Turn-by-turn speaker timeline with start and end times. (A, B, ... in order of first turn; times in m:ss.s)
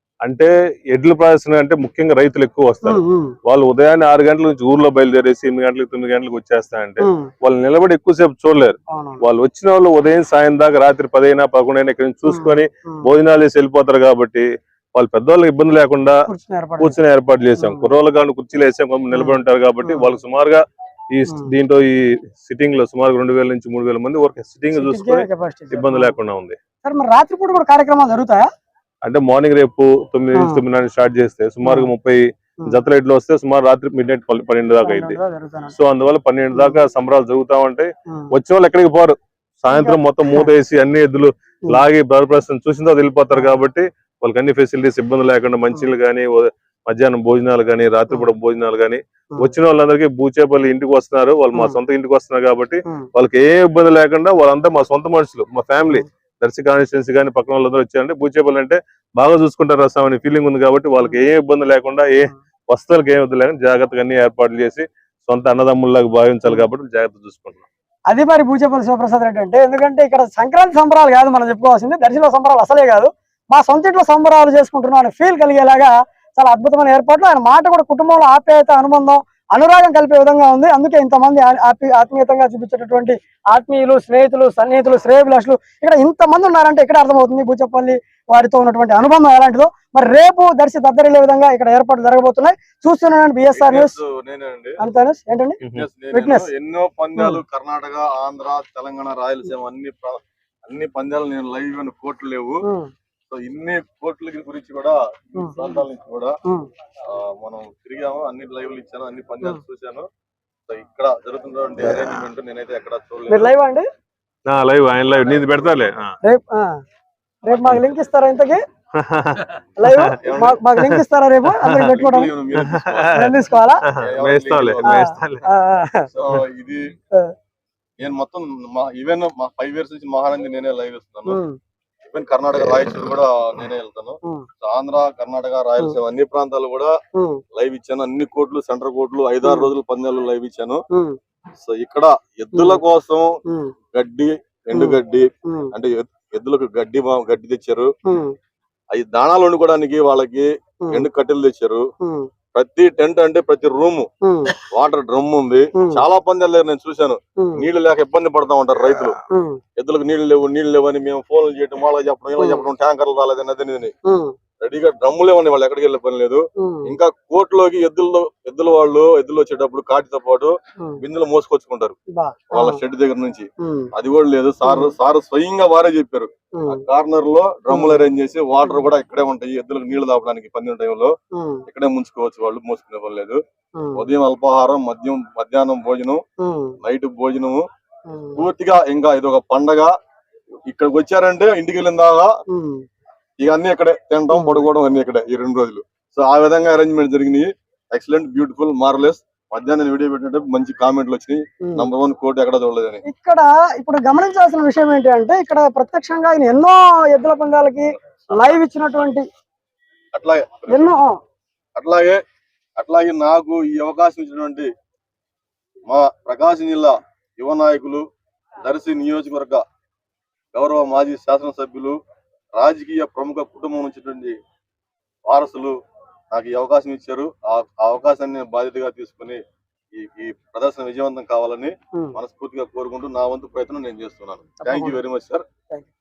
0:00.2-0:16.2 A
0:02.8-0:03.3 B
0:07.0-0:07.3 B
0:08.9-0:09.2 B
0:12.2-0:13.1 B
0:16.3-0:17.0 B
0:16.8-0:26.6 A
0:17.6-0:17.9 B
0:19.1-0:20.1 B
0:21.3-0:21.5 B
0:24.7-0:26.2 B
0:26.8-0:28.5 B
0:29.0-0:35.2 A
0:30.3-0:30.6 B
0:31.6-0:31.9 B
0:34.8-0:35.8 B
0:35.7-1:07.6 A
0:36.5-0:36.8 B
0:39.7-0:40.5 B
0:51.5-0:51.8 B
1:01.0-1:01.3 B
1:08.1-1:34.0 B
1:33.5-1:34.8 C
1:34.8-1:35.6 B
1:35.6-1:35.9 A
1:35.8-1:42.6 C
1:36.1-1:36.5 B
1:37.2-1:37.4 B
1:42.6-1:42.9 B
1:43.3-1:46.3 C
1:45.4-1:45.8 B
1:47.0-1:50.1 C
1:50.7-1:53.5 C
1:53.3-1:53.9 B
1:54.4-1:56.1 A
1:56.2-1:56.8 B
1:57.4-1:58.6 B
1:58.9-2:00.2 A
1:59.8-2:02.3 B
2:00.2-2:00.6 C
2:00.8-2:01.9 A
2:01.8-2:03.2 C
2:02.6-2:05.5 A
2:03.1-2:03.9 B
2:04.0-2:05.0 C
2:04.8-2:06.1 B
2:06.1-2:06.9 C
2:08.0-2:11.4 C
2:11.2-2:11.6 B
2:12.1-2:17.0 C
2:17.1-2:17.4 B
2:17.5-2:20.8 C
2:19.4-2:19.7 B
2:20.9-2:21.2 B
2:21.6-2:23.4 C
2:22.5-2:22.8 B
2:23.4-2:23.7 B
2:23.9-2:27.9 C
2:24.7-2:25.7 B
2:28.1-2:28.4 B
2:28.9-2:31.9 C
2:30.8-2:31.1 B
2:32.0-2:32.3 B
2:32.6-2:34.1 C
2:34.2-2:34.6 B
2:34.6-2:39.2 C
2:35.8-2:36.0 B
2:37.4-2:37.7 B
2:39.3-2:39.6 B
2:39.8-2:43.9 C
2:42.4-2:42.7 B
2:44.1-2:44.3 B
2:44.6-2:52.0 C
2:46.6-2:47.0 B
2:52.1-2:52.8 B
2:52.5-3:01.1 C
2:53.6-2:53.9 B
2:54.6-2:54.9 B
2:56.6-2:56.8 B
2:57.7-2:58.0 B
3:01.4-3:01.6 B
3:01.7-3:03.4 C
3:03.8-3:04.1 B
3:04.0-3:06.2 C
3:06.4-3:06.8 B
3:06.8-3:07.6 C
3:08.1-3:08.4 B
3:08.4-3:09.9 C
3:10.7-3:12.3 C
3:12.5-3:12.8 B
3:13.4-3:23.0 C
3:14.3-3:14.6 B
3:21.6-3:21.9 B
3:23.1-3:29.2 B
3:28.3-3:28.6 C
3:30.1-3:31.0 C
3:30.7-3:31.2 B
3:31.8-3:32.2 C
3:32.8-3:34.7 C
3:35.9-3:38.0 C
3:38.6-3:39.6 C
3:40.5-3:42.0 C
3:42.6-3:44.4 C
3:45.3-3:45.8 C
3:46.3-3:49.4 C
3:49.9-3:55.4 C
3:54.6-3:55.0 B